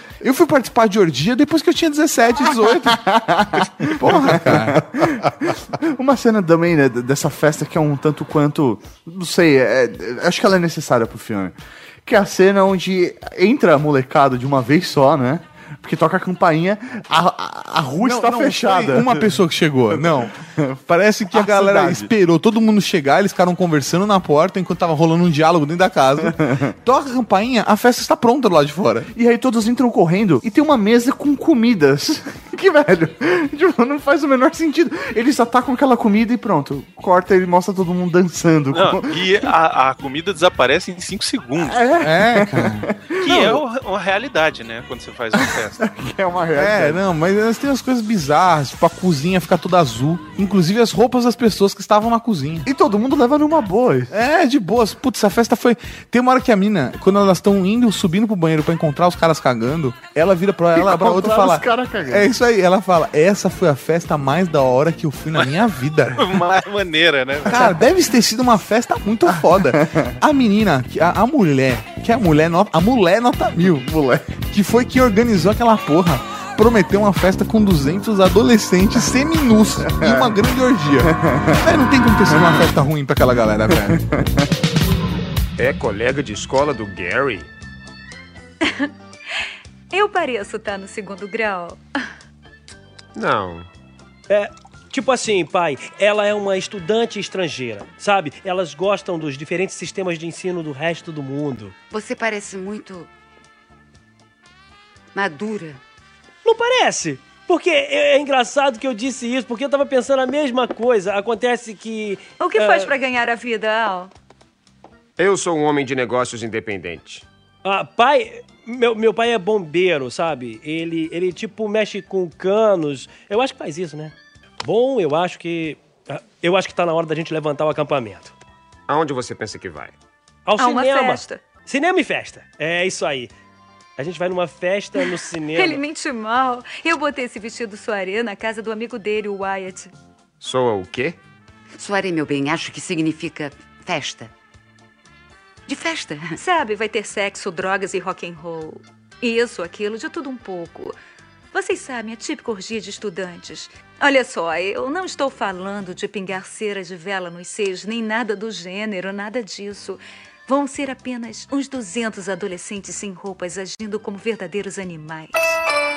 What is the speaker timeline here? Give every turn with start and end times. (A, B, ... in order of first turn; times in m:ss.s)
0:00.2-0:03.0 A
0:02.8-0:19.4 B
0:03.6-0:04.9 A
0:18.0-0:20.3 A
0:19.9-0:20.8 B
0:20.9-0:29.1 A
0:21.3-0:22.1 B
0:26.4-0:26.7 B
0:29.1-0:39.2 B
0:38.7-0:41.8 C
0:41.6-0:43.6 B
0:42.0-0:42.9 A
0:43.2-0:45.8 C
0:45.8-0:47.0 B
0:46.5-0:52.7 A
0:52.6-0:54.1 B
0:54.1-1:06.2 A
1:00.7-1:02.3 B
1:06.1-1:07.7 C
1:07.4-1:13.9 A
1:09.7-1:10.1 B
1:13.8-1:14.3 B
1:14.5-1:24.0 A
1:19.9-1:20.3 B
1:21.1-1:21.6 B
1:22.3-1:22.6 B
1:24.0-1:24.3 B
1:25.6-1:27.5 D
1:29.9-1:31.8 E
1:33.1-1:33.7 D
1:34.3-1:41.7 F
1:41.9-1:43.1 G
1:45.1-1:45.8 G
1:46.4-1:52.9 F
1:52.4-1:54.1 E
1:55.2-1:57.2 D
1:57.6-2:08.3 F
2:08.9-2:09.9 D
2:10.4-2:13.3 F
2:10.6-2:11.5 E
2:14.0-2:15.8 F
2:15.0-2:19.9 E
2:20.4-2:21.2 D
2:21.8-2:24.3 G
2:25.7-2:26.4 G
2:26.4-2:31.0 E
2:31.5-2:45.6 E